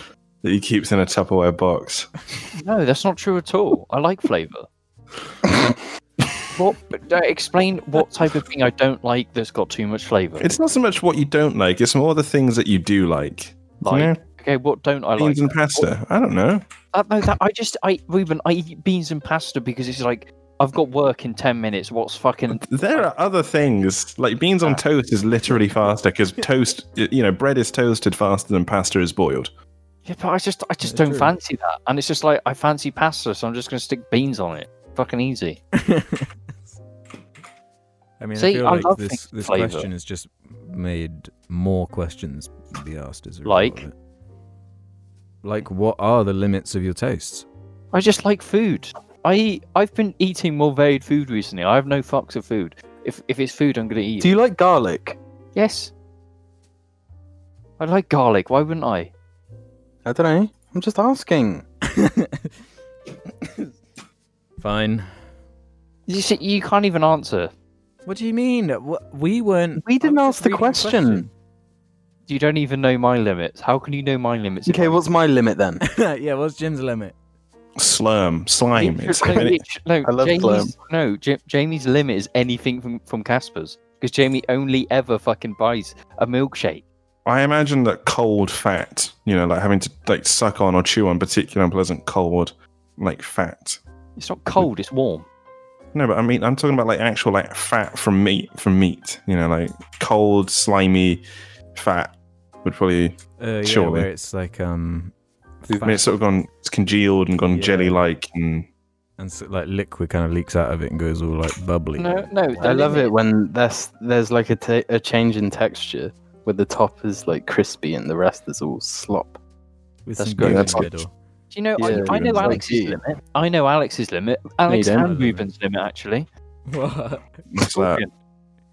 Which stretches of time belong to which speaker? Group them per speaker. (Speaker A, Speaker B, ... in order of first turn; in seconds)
Speaker A: 0.4-2.3, 10.4-14.2, 15.2-16.6, 22.5-29.5, 77.8-79.6, 87.2-93.8, 95.9-101.2, 101.8-104.1, 105.7-108.7, 120.4-121.0, 121.9-122.6, 127.5-128.1
Speaker B: 2.6-4.7, 6.5-10.5, 13.8-15.9, 16.9-23.1, 30.1-35.6, 38.4-39.9, 43.5-43.8, 47.9-54.3, 55.5-55.9, 57.8-59.1, 66.1-67.5, 72.3-75.0, 78.8-86.8, 94.2-95.3, 112.0-113.2, 120.2-120.8, 121.5-126.3, 127.6-128.1
Speaker C: 30.8-31.3, 35.8-36.3, 38.2-43.9, 45.4-47.5, 61.8-62.5, 63.4-63.7, 64.6-65.1, 68.1-71.3, 75.8-77.2, 103.4-105.1, 105.7-106.2, 107.5-108.0, 109.2-112.6, 120.0-121.1, 124.9-125.5, 126.7-127.4
Speaker D: 54.2-55.2, 60.0-61.6, 69.8-71.3, 74.7-75.8, 79.2-79.5, 80.0-80.7, 112.6-119.4, 121.8-123.0, 124.7-125.1